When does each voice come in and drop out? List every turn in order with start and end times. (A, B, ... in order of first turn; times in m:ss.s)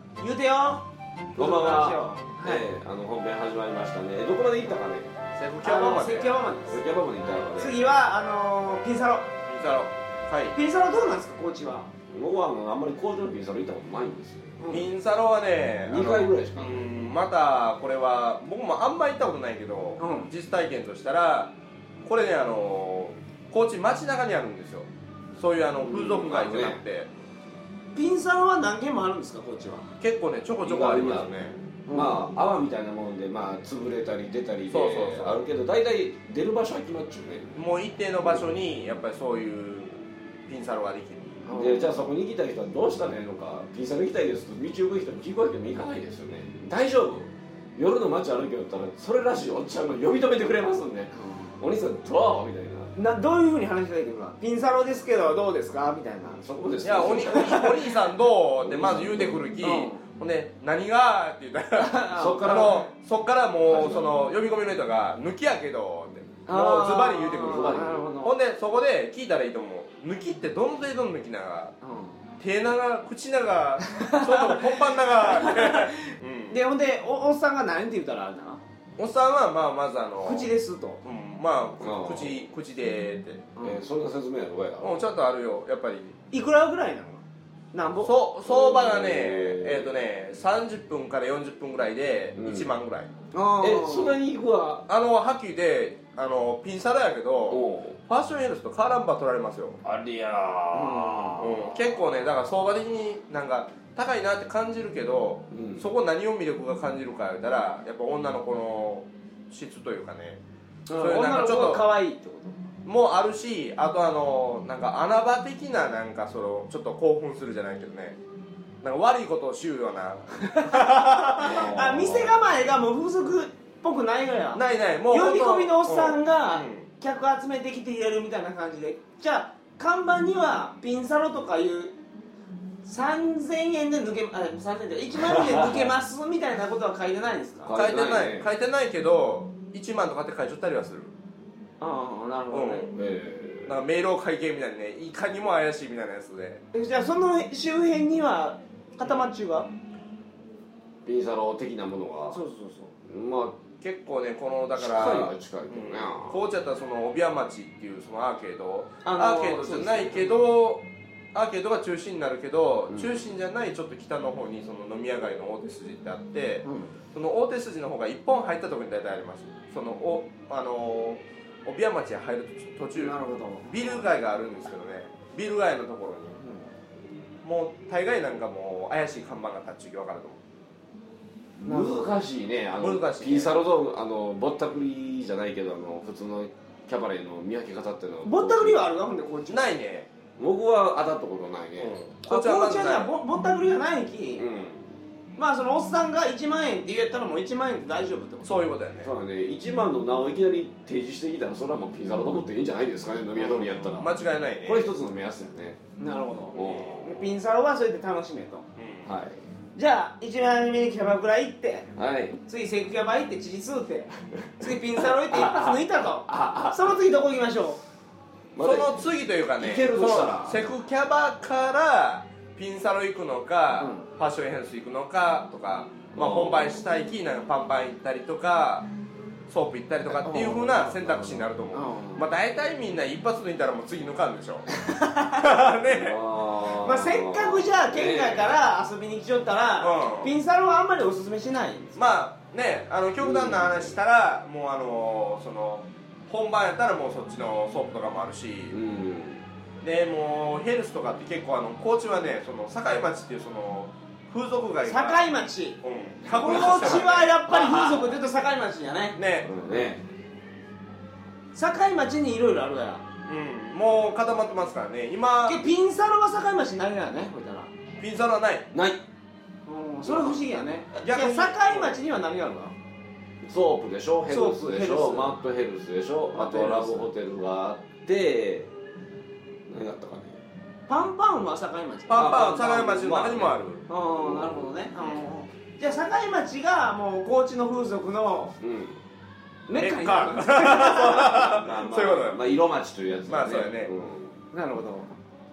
0:00.2-0:02.6 A
0:01.4-0:05.2 B
0:05.4-0:06.4 C
0:05.6-0:06.8 A
0:06.7-0:07.8 B
0:07.6-0:09.3 A
0:09.5-0:10.6 C
0:10.5-0:11.9 A
0:12.1-0:14.6 B
0:14.6-0:14.9 A
0:14.7-0:21.5 C
0:15.8-0:17.1 B
0:20.0-0:20.3 A
0:22.0-0:27.1 C
0:25.8-0:26.8 B
0:28.0-0:29.9 A
0:30.0-0:31.6 C
0:30.6-0:31.4 B
0:31.9-0:32.3 A
0:31.9-0:37.6 B
0:34.7-0:35.4 C
0:37.6-0:41.4 C
0:41.4-0:42.0 A
0:41.5-0:52.9 B
0:51.2-0:51.5 A
0:53.0-0:56.5 A
0:56.4-0:57.8 B
0:56.8-1:11.7 C
0:57.0-0:57.8 A
0:58.6-0:59.5 B
0:59.6-1:00.0 A
1:01.8-1:02.9 A
1:02.2-1:02.8 B
1:03.6-1:04.2 B
1:06.5-1:08.4 A
1:07.4-1:08.0 B
1:11.8-1:12.2 A
1:12.4-1:16.6 C
1:13.9-1:18.6 A
1:19.0-1:20.5 C
1:20.2-1:21.0 A
1:21.0-1:23.5 C
1:21.8-1:22.4 B
1:23.6-1:23.8 A
1:23.6-1:25.0 B
1:24.8-1:26.2 C
1:26.3-1:27.2 A
1:27.7-1:28.1 A
1:28.0-1:33.1 C
1:28.4-1:29.9 B
1:32.4-1:32.7 B
1:33.3-1:34.2 A
1:33.6-1:34.8 B
1:34.9-1:39.8 C
1:37.5-1:38.0 B
1:39.8-1:41.8 B
1:40.7-1:41.5 A
1:41.4-1:50.4 C
1:45.5-1:45.9 B
1:50.9-1:52.6 A
1:50.9-1:51.9 C
1:52.8-1:58.2 C
1:58.8-2:01.7 C
2:01.2-2:12.0 A
2:01.4-2:02.4 B
2:04.5-2:06.9 C
2:12.8-2:17.7 A
2:15.2-2:15.9 B
2:17.6-2:18.5 B
2:17.7-2:21.1 C
2:21.8-2:22.9 A
2:22.5-2:23.0 C
2:22.9-2:23.8 B
2:23.7-2:26.6 C
2:26.7-2:29.7 A
2:31.0-2:32.4 B
2:32.3-2:32.9 A
2:33.1-2:33.6 B
2:33.8-2:56.4 C
2:34.8-2:36.4 B
2:39.0-2:40.4 A
2:42.9-2:43.2 B
2:46.6-2:47.0 A
2:52.9-2:54.0 A
2:56.4-2:56.7 A
2:57.4-3:00.4 C
3:01.6-3:08.8 B
3:01.6-3:02.1 A
3:02.8-3:03.7 C
3:08.2-3:09.7 A
3:09.5-3:10.1 C
3:10.4-3:12.0 B
3:11.8-3:13.1 C
3:12.2-3:14.4 A
3:14.4-3:15.0 B
3:15.4-3:18.6 A
3:18.4-3:19.1 C
3:19.0-3:25.8 B
3:23.4-3:24.9 C
3:26.0-3:28.6 A
3:26.5-3:27.2 B
3:26.6-3:27.0 C
3:28.8-3:29.1 C
3:29.0-3:29.4 B
3:29.8-3:31.9 A
3:32.0-3:32.4 B
3:32.4-3:37.8 A
3:34.6-3:36.9 B
3:38.6-3:40.6 B
3:38.6-3:48.9 C
3:43.8-3:44.1 A
3:46.2-3:46.8 B
3:49.5-3:54.7 C
3:50.2-3:51.0 A
3:51.0-3:51.5 B
3:51.7-3:52.2 A
3:54.9-3:55.4 A
3:55.3-3:56.2 C
3:55.8-3:58.6 B
3:56.6-4:02.0 A
3:59.8-4:00.3 C
4:02.0-4:08.8 C
4:03.2-4:04.0 B
4:08.7-4:09.4 B
4:09.8-4:15.2 C
4:14.8-4:19.2 A
4:15.8-4:17.3 C
4:16.7-4:18.1 B
4:19.2-4:19.5 C
4:19.4-4:20.0 B
4:21.5-4:23.0 A
4:23.3-4:25.6 C
4:25.4-4:27.7 A
4:28.0-4:28.7 C
4:28.7-4:29.0 B
4:29.7-4:32.7 A
4:30.1-4:30.4 B
4:31.0-4:32.0 C
4:33.4-4:38.7 B
4:34.3-4:35.4 A
4:36.4-4:37.1 A
4:39.7-4:40.4 B
4:40.9-4:42.6 A
4:42.1-4:43.9 C
4:42.1-4:43.6 B
4:43.9-4:48.6 A
4:44.2-4:44.7 B
4:48.6-4:49.0 B
4:49.7-4:51.6 A
4:49.8-4:52.4 C
4:51.3-4:54.4 B
4:53.3-4:53.9 C
4:54.5-4:55.1 A